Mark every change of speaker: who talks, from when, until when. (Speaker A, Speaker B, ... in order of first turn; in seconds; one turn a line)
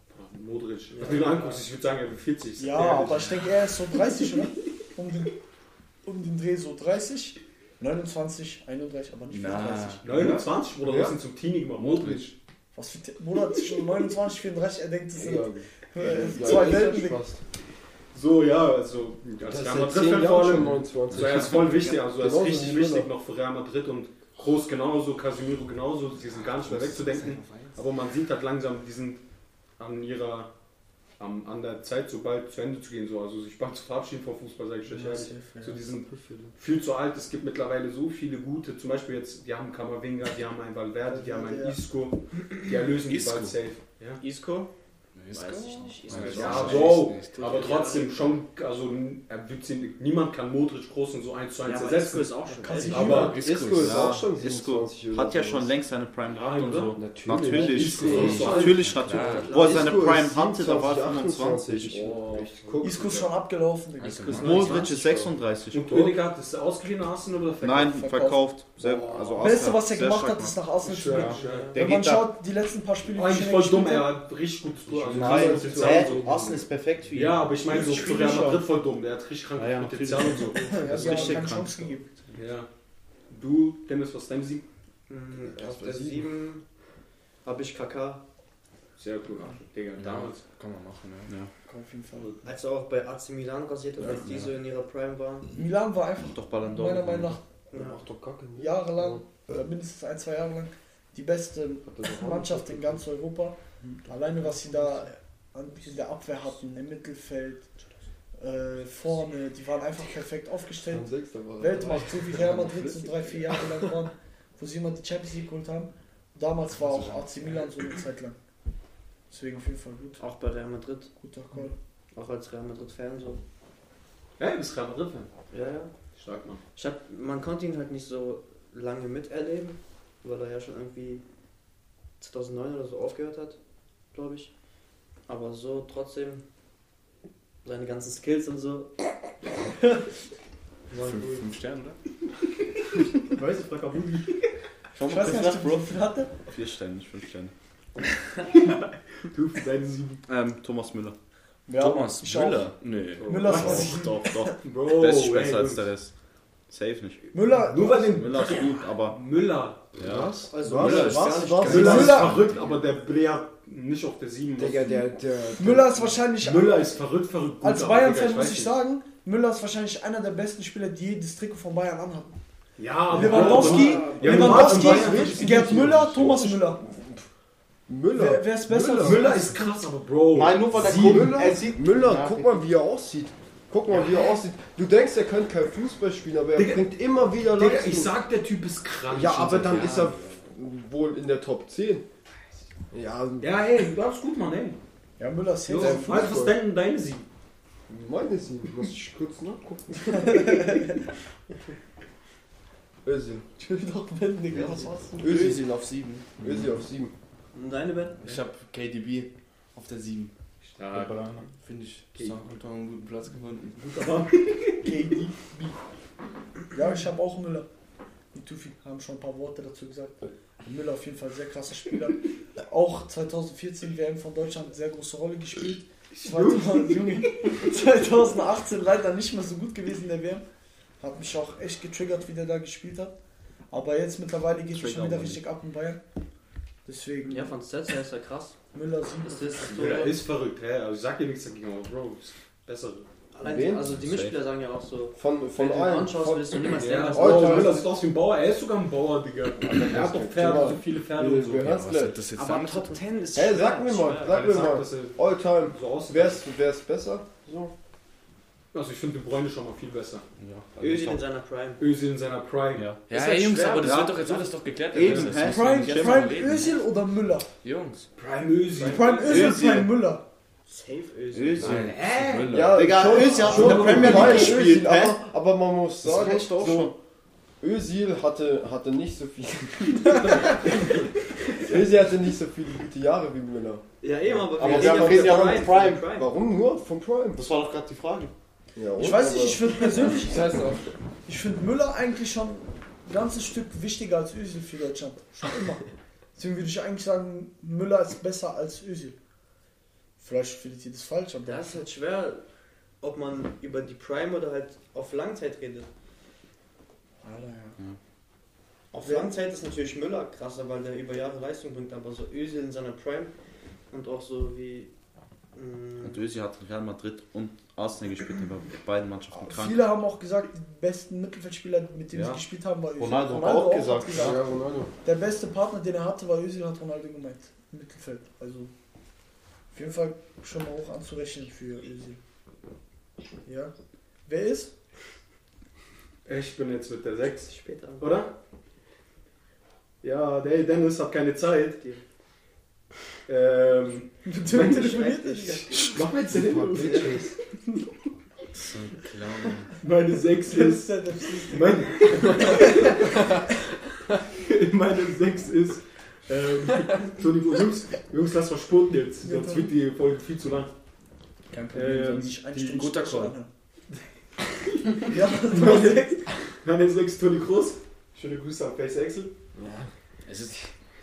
Speaker A: 0.1-3.5
Speaker B: 0.9-1.6
Speaker C: 2.6-5.3
Speaker C: 6.0-10.1
Speaker D: 9.3-10.3
Speaker A: 10.0-12.3
Speaker E: 10.2-11.2
Speaker C: 12.7-17.2
Speaker E: 15.1-17.4
Speaker A: 18.1-29.2
Speaker E: 19.4-23.1
Speaker D: 26.3-27.8
Speaker A: 29.8-30.5
Speaker A: 31.2-44.2
Speaker C: 34.9-35.8
Speaker B: 36.1-36.5
Speaker C: 41.0-41.8
Speaker D: 43.1-43.5
Speaker B: 44.2-44.7
Speaker D: 45.1-47.7
Speaker B: 45.3-48.4
Speaker A: 46.1-53.5
Speaker B: 51.6-53.3
Speaker C: 52.5-53.4
Speaker D: 53.0-54.1
Speaker E: 53.0-55.7
Speaker F: 53.7-61.9
Speaker A: 56.3-58.9
Speaker E: 57.0-58.8
Speaker B: 58.0-60.1
Speaker D: 58.2-59.6
Speaker E: 59.5-63.3
Speaker A: 61.9-62.9
Speaker C: 62.8-64.7
Speaker D: 64.0-64.9
Speaker F: 64.3-66.2
Speaker B: 64.4-65.2
Speaker A: 64.5-69.5
Speaker F: 67.6-72.3
Speaker C: 68.0-68.4
Speaker C: 69.4-74.2
Speaker A: 70.8-71.8
Speaker B: 71.3-71.9
Speaker A: 73.1-81.5
Speaker E: 74.9-76.3
Speaker F: 75.1-78.6
Speaker F: 79.5-82.0
Speaker C: 80.6-82.1
Speaker A: 82.3-82.7
Speaker A: 83.3-84.6
Speaker B: 85.1-86.6
Speaker E: 85.5-86.3
Speaker B: 87.4-88.2
Speaker A: 89.0-90.4
Speaker D: 90.0-91.3
Speaker C: 91.7-92.5
Speaker B: 92.4-95.5
Speaker C: 95.5-97.4
Speaker F: 96.3-97.4
Speaker B: 97.7-98.0
Speaker E: 97.7-99.2
Speaker C: 98.6-107.6
Speaker E: 101.8-103.0
Speaker C: 108.4-118.4
Speaker E: 110.9-113.7
Speaker D: 116.8-117.2
Speaker C: 119.3-120.2
Speaker B: 120.2-121.1
Speaker C: 121.2-121.7
Speaker B: 122.1-123.4
Speaker A: 124.4-125.3
Speaker B: 125.5-125.9
Speaker A: 126.2-126.6
Speaker B: 126.7-131.2
Speaker B: 132.2-133.6
Speaker B: 134.1-134.5
Speaker B: 135.3-136.4
Speaker B: 137.6-139.1
Speaker D: 140.9-142.0
Speaker A: 143.3-144.3
Speaker F: 144.9-147.5
Speaker C: 145.0-146.3
Speaker A: 149.2-150.2
Speaker F: 150.3-151.2
Speaker C: 151.7-152.7
Speaker D: 151.7-153.9
Speaker A: 153.2-154.0
Speaker C: 153.2-154.6
Speaker F: 153.5-156.1
Speaker A: 154.6-155.9
Speaker F: 156.7-157.3
Speaker C: 157.3-158.3
Speaker A: 157.5-159.9
Speaker F: 157.9-159.2
Speaker F: 160.0-162.0
Speaker E: 160.0-162.3
Speaker B: 160.5-162.3
Speaker D: 160.8-162.7
Speaker A: 161.7-165.1
Speaker C: 161.7-162.4
Speaker E: 164.6-166.2
Speaker C: 165.6-167.0
Speaker A: 166.4-168.8
Speaker C: 167.6-172.4
Speaker A: 172.8-175.7
Speaker C: 173.1-176.8
Speaker E: 173.1-177.2
Speaker E: 177.9-179.3
Speaker C: 178.1-179.6
Speaker A: 179.0-181.6
Speaker F: 180.3-182.6
Speaker E: 180.7-188.2
Speaker A: 186.6-186.9
Speaker A: 187.4-189.9
Speaker E: 189.1-192.1
Speaker D: 189.4-190.4
Speaker E: 192.9-193.5
Speaker A: 193.4-194.8
Speaker C: 195.2-196.4
Speaker A: 195.7-197.3
Speaker E: 195.7-196.6
Speaker E: 197.9-200.6
Speaker C: 200.1-201.0
Speaker E: 203.0-203.4
Speaker C: 203.6-205.0
Speaker E: 204.5-207.1
Speaker D: 205.2-206.7
Speaker B: 207.5-208.4
Speaker D: 208.2-210.3
Speaker A: 210.7-211.4
Speaker F: 210.9-211.5
Speaker D: 211.6-214.0
Speaker A: 213.8-214.9
Speaker C: 214.8-215.7
Speaker C: 216.7-217.7
Speaker C: 218.3-230.4
Speaker A: 226.1-227.5
Speaker C: 231.0-233.2
Speaker C: 233.7-236.0
Speaker F: 234.7-235.4
Speaker C: 236.8-237.6
Speaker B: 237.2-238.6
Speaker C: 238.7-239.6
Speaker B: 239.2-240.2
Speaker A: 239.6-243.1
Speaker B: 243.3-247.8
Speaker E: 243.4-243.9
Speaker F: 243.9-244.4
Speaker E: 245.1-247.9
Speaker A: 246.7-251.7
Speaker E: 249.6-252.3
Speaker D: 251.6-253.0
Speaker B: 252.3-254.6
Speaker E: 253.3-257.7
Speaker A: 254.2-256.4
Speaker A: 258.7-260.2
Speaker F: 260.4-261.2
Speaker B: 260.8-261.8
Speaker A: 261.8-262.9
Speaker F: 262.8-263.0
Speaker D: 263.1-266.8
Speaker B: 263.1-264.0
Speaker F: 263.7-266.4
Speaker A: 265.0-265.3
Speaker C: 265.4-267.5
Speaker D: 267.6-268.1
Speaker A: 268.2-269.6
Speaker C: 268.8-270.2
Speaker F: 269.2-270.0
Speaker B: 270.7-272.2
Speaker F: 271.3-275.2
Speaker D: 271.6-273.1
Speaker E: 272.5-276.9
Speaker C: 273.4-274.3
Speaker A: 273.4-274.6
Speaker F: 276.0-276.9
Speaker E: 277.6-280.7
Speaker E: 281.5-283.8
Speaker B: 284.0-286.3
Speaker F: 284.4-286.1
Speaker E: 284.5-287.4
Speaker F: 287.4-288.3
Speaker E: 288.8-290.9
Speaker C: 289.0-290.4
Speaker C: 291.2-295.8
Speaker C: 296.4-299.2
Speaker C: 300.2-301.7
Speaker B: 301.4-302.4
Speaker B: 303.0-305.9
Speaker C: 307.2-307.8
Speaker B: 308.9-313.3
Speaker C: 309.0-309.3
Speaker B: 313.9-314.9
Speaker B: 315.5-316.2
Speaker F: 316.0-319.8
Speaker C: 319.3-324.4
Speaker F: 322.1-322.4
Speaker F: 323.0-324.4
Speaker E: 324.1-324.9
Speaker C: 325.0-328.7
Speaker C: 329.7-332.2
Speaker C: 333.4-333.7
Speaker C: 334.2-334.7
Speaker A: 336.2-338.3
Speaker B: 337.5-338.2
Speaker A: 340.0-341.9
Speaker A: 343.3-347.4
Speaker C: 344.2-345.9
Speaker B: 344.5-346.0
Speaker E: 346.3-347.3
Speaker B: 346.7-347.2
Speaker D: 348.6-349.7
Speaker F: 348.9-349.6
Speaker A: 349.8-353.2
Speaker C: 350.4-353.0
Speaker A: 354.3-360.7
Speaker C: 359.2-359.7
Speaker C: 361.5-363.5
Speaker A: 361.7-362.9
Speaker D: 362.7-363.3
Speaker A: 364.9-369.3
Speaker C: 365.1-366.2
Speaker E: 369.6-369.9
Speaker D: 370.3-370.7